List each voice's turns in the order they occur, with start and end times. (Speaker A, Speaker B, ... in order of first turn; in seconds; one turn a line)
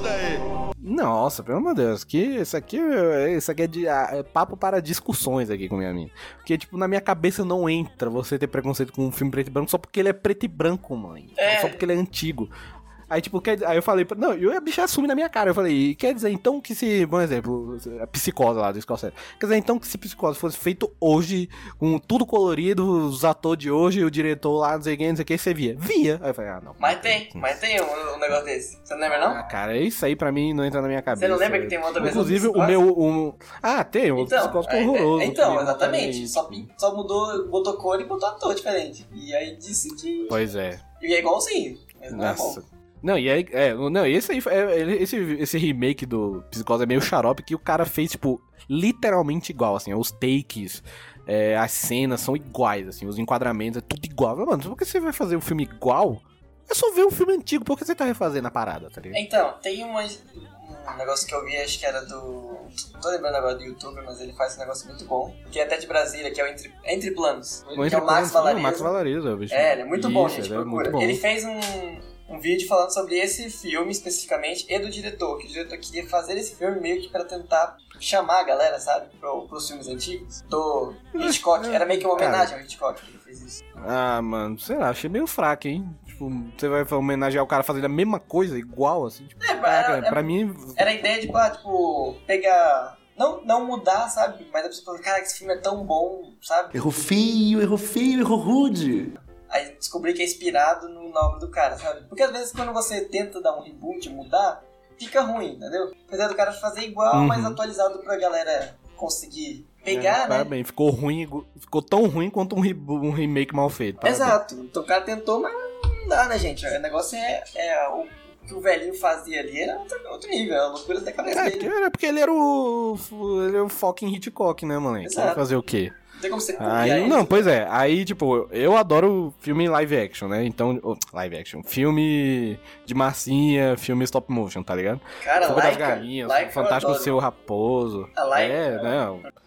Speaker A: 0.8-12.5
Speaker B: 11.4-11.8
Speaker A: 13.1-27.6
Speaker B: 26.8-29.4
Speaker A: 29.1-36.7
Speaker B: 31.1-32.8
Speaker B: 34.2-40.4
Speaker A: 40.3-40.8
Speaker B: 41.0-42.6
Speaker A: 42.1-59.2
Speaker B: 59.1-68.9
Speaker A: 67.7-71.2
Speaker B: 69.5-83.6
Speaker A: 81.1-82.5
Speaker A: 83.8-90.9
Speaker B: 89.4-90.2
Speaker B: 90.7-96.7
Speaker C: 96.7-99.1
Speaker B: 99.5-110.5
Speaker A: 107.1-107.6
Speaker A: 109.9-114.4
Speaker B: 114.0-121.7
Speaker A: 121.3-125.9
Speaker B: 125.0-125.4
Speaker B: 126.1-127.5
Speaker A: 126.6-139.2
Speaker B: 135.2-137.2
Speaker B: 138.2-139.3